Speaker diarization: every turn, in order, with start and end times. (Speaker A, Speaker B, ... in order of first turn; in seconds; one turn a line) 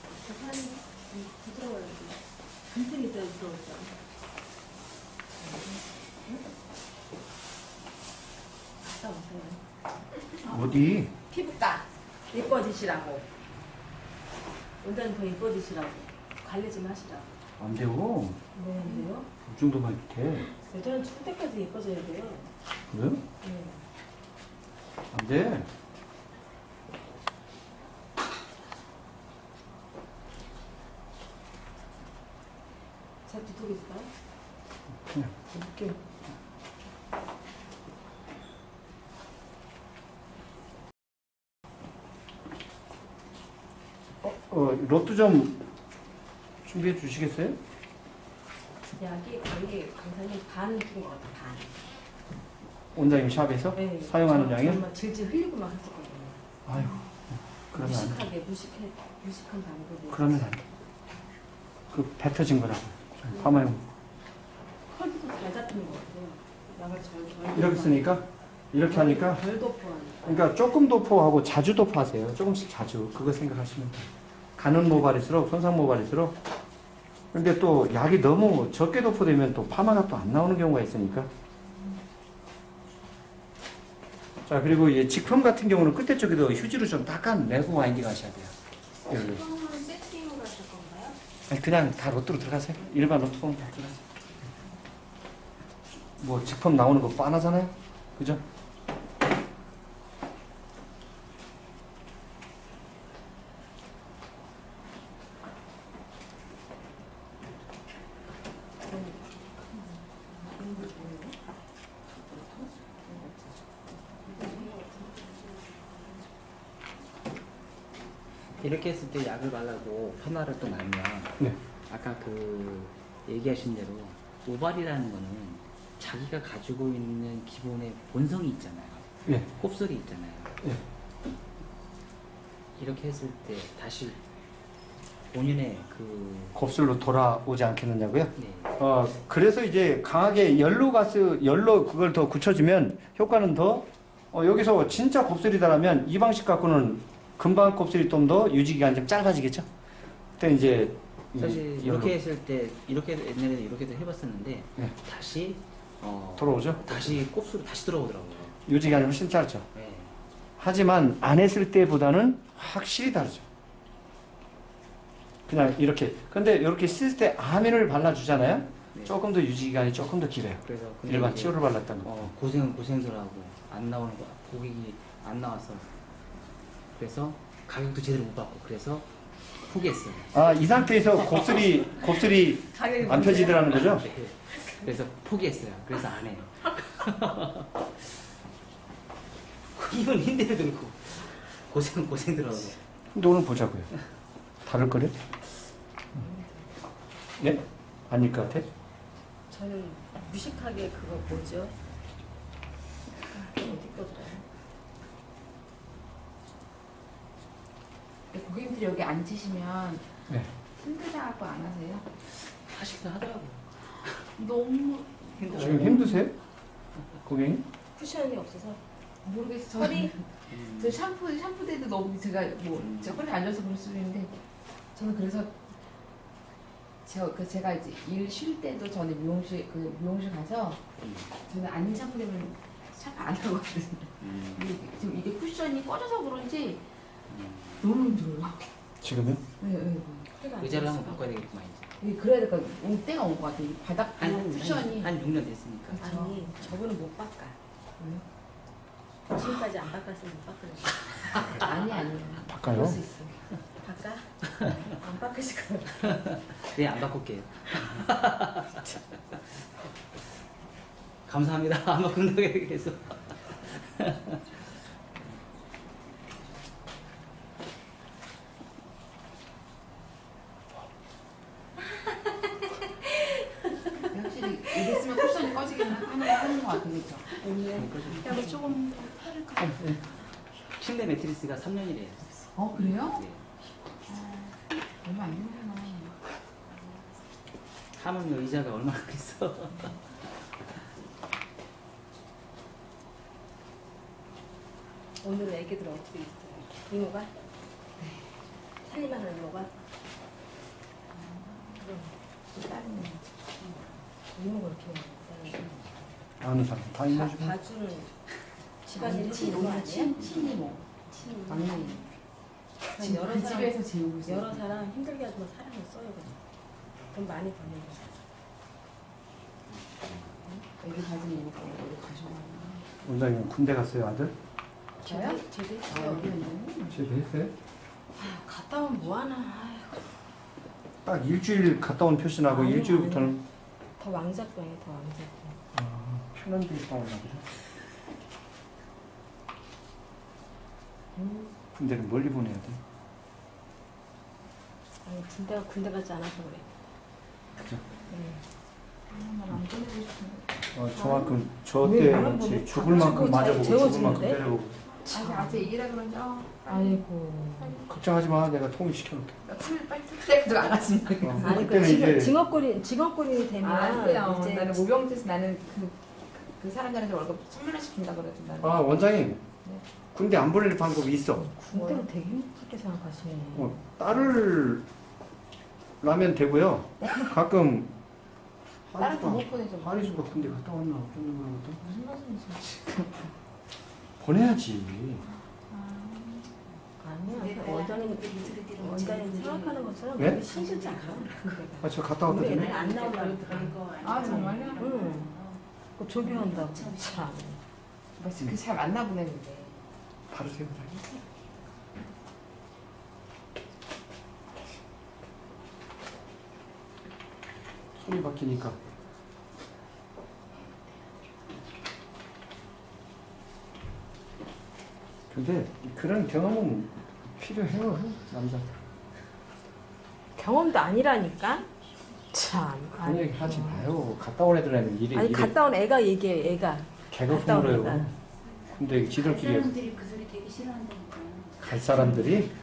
Speaker A: 0.2-2.1
Speaker B: 0.3-0.7
Speaker B: 1.7-2.1
Speaker A: 2.7-3.9
Speaker B: 2.8-3.8
Speaker B: 8.8-9.6
Speaker C: 10.4-11.1
Speaker A: 11.3-11.8
Speaker B: 12.3-13.2
Speaker B: 14.8-17.2
Speaker A: 16.5-16.9
Speaker C: 17.6-18.4
Speaker B: 18.5-19.2
Speaker A: 18.8-19.2
Speaker C: 19.4-20.5
Speaker B: 20.5-22.5
Speaker C: 22.9-23.2
Speaker B: 23.4-23.8
Speaker C: 25.1-25.7
Speaker B: 33.3-34.1
Speaker C: 35.1-36.0
Speaker C: 44.2-45.5
Speaker C: 46.6-47.6
Speaker B: 49.0-51.8
Speaker C: 52.9-54.8
Speaker B: 53.8-56.4
Speaker C: 56.6-58.3
Speaker B: 57.9-60.3
Speaker A: 59.4-59.7
Speaker C: 60.1-60.6
Speaker C: 61.9-63.8
Speaker B: 64.9-68.1
Speaker A: 66.8-67.5
Speaker C: 67.5-69.4
Speaker B: 68.9-70.3
Speaker C: 70.2-76.3
Speaker C: 77.3-81.3
Speaker C: 84.5-88.5
Speaker C: 89.1-89.4
Speaker D: 89.5-90.9
Speaker C: 91.5-94.0
Speaker C: 96.2-98.4
Speaker D: 110.3-111.3
Speaker D: 112.3-113.5
Speaker D: 114.3-114.7
Speaker E: 118.6-130.6
Speaker E: 132.8-134.2
Speaker E: 135.3-136.6
Speaker C: 136.5-149.7
Speaker E: 138.4-138.8
Speaker C: 150.4-152.2
Speaker E: 151.3-158.6
Speaker C: 156.4-157.1
Speaker C: 158.7-159.7
Speaker E: 159.7-160.2
Speaker C: 160.6-163.4
Speaker C: 165.5-172.3
Speaker E: 170.6-175.9
Speaker E: 176.9-179.1
Speaker E: 179.7-180.9
Speaker C: 180.3-184.1
Speaker A: 182.7-183.3
Speaker E: 183.4-187.8
Speaker E: 189.7-192.8
Speaker C: 193.1-193.9
Speaker C: 194.6-195.1
Speaker B: 196.1-196.5
Speaker C: 197.4-198.7
Speaker B: 199.5-201.7
Speaker B: 203.4-204.4
Speaker A: 203.4-203.7
Speaker D: 208.3-210.1
Speaker D: 210.8-212.0
Speaker E: 212.2-214.2
Speaker D: 214.4-216.3
Speaker E: 215.4-216.1
Speaker C: 215.5-216.3
Speaker C: 217.2-217.6
Speaker B: 217.9-218.8
Speaker A: 218.1-218.8
Speaker D: 219.2-224.3
Speaker E: 220.5-221.0
Speaker E: 222.8-223.2
Speaker D: 224.9-225.5
Speaker D: 227.0-230.8
Speaker E: 231.0-231.3
Speaker D: 231.4-236.8
Speaker E: 234.2-234.7
Speaker E: 237.3-237.9
Speaker D: 237.8-238.6
Speaker C: 239.0-239.4
Speaker D: 239.6-240.3
Speaker B: 240.3-240.7
Speaker E: 240.6-241.9
Speaker D: 242.0-245.1
Speaker E: 244.2-246.1
Speaker D: 245.9-246.7
Speaker A: 246.0-246.7
Speaker B: 246.2-247.6
Speaker B: 249.4-250.8
Speaker D: 251.3-253.4
Speaker C: 252.4-253.0
Speaker B: 253.8-254.3
Speaker A: 254.6-256.1
Speaker B: 255.1-255.9
Speaker E: 256.0-259.4
Speaker E: 261.3-264.4
Speaker D: 274.0-278.1
Speaker E: 277.6-278.7
Speaker A: 277.7-279.4
Speaker C: 279.6-280.0
Speaker E: 280.6-283.4
Speaker D: 282.6-283.2
Speaker D: 284.1-286.2
Speaker E: 287.9-290.0
Speaker B: 295.2-297.3
Speaker B: 298.9-299.7
Speaker D: 302.5-303.2
Speaker B: 304.3-305.7
Speaker C: 306.4-307.6
Speaker B: 307.3-308.1
Speaker B: 308.9-310.1
Speaker D: 308.9-312.1
Speaker D: 312.9-314.8
Speaker B: 313.0-313.6
Speaker B: 314.3-316.4
Speaker B: 317.1-318.1
Speaker D: 320.8-322.9
Speaker C: 323.0-324.3
Speaker D: 325.0-327.0
Speaker B: 325.3-326.2
Speaker C: 326.9-327.5
Speaker B: 328.1-330.1
Speaker C: 331.0-333.4
Speaker B: 332.5-333.3
Speaker B: 334.0-335.6
Speaker C: 335.7-337.5
Speaker B: 341.1-341.5
Speaker C: 341.8-342.8
Speaker B: 345.1-346.7
Speaker B: 348.1-348.4
Speaker D: 349.1-353.1
Speaker C: 350.7-354.8
Speaker B: 352.9-354.4
Speaker D: 355.0-357.9
Speaker B: 356.9-357.6
Speaker C: 357.8-359.4
Speaker D: 359.4-362.1
Speaker C: 361.2-362.4
Speaker B: 361.4-364.6
Speaker D: 363.6-369.8
Speaker A: 363.6-364.8
Speaker C: 368.6-369.4
Speaker C: 370.1-371.5
Speaker A: 371.6-372.1
Speaker D: 371.7-372.1
Speaker B: 371.8-373.7
Speaker A: 372.8-373.4
Speaker C: 373.5-374.8
Speaker C: 376.0-377.9
Speaker D: 377.0-377.3
Speaker C: 378.9-381.8
Speaker D: 379.0-380.5
Speaker D: 381.9-383.2
Speaker C: 384.2-385.2
Speaker D: 385.7-386.5
Speaker B: 387.0-393.7
Speaker A: 387.3-391.6
Speaker C: 390.2-390.4
Speaker C: 391.8-392.8
Speaker D: 392.4-393.0
Speaker A: 392.6-395.4
Speaker D: 394.0-395.3
Speaker B: 394.2-395.3
Speaker B: 396.0-397.6
Speaker A: 396.1-397.3
Speaker D: 398.2-399.8
Speaker C: 400.3-400.8
Speaker C: 407.9-408.8
Speaker C: 415.3-418.7
Speaker B: 420.4-421.7
Speaker B: 422.3-423.3
Speaker C: 423.0-425.5
Speaker B: 425.1-428.1
Speaker C: 427.1-428.1
Speaker C: 428.8-429.8
Speaker A: 429.2-432.3
Speaker C: 431.6-432.5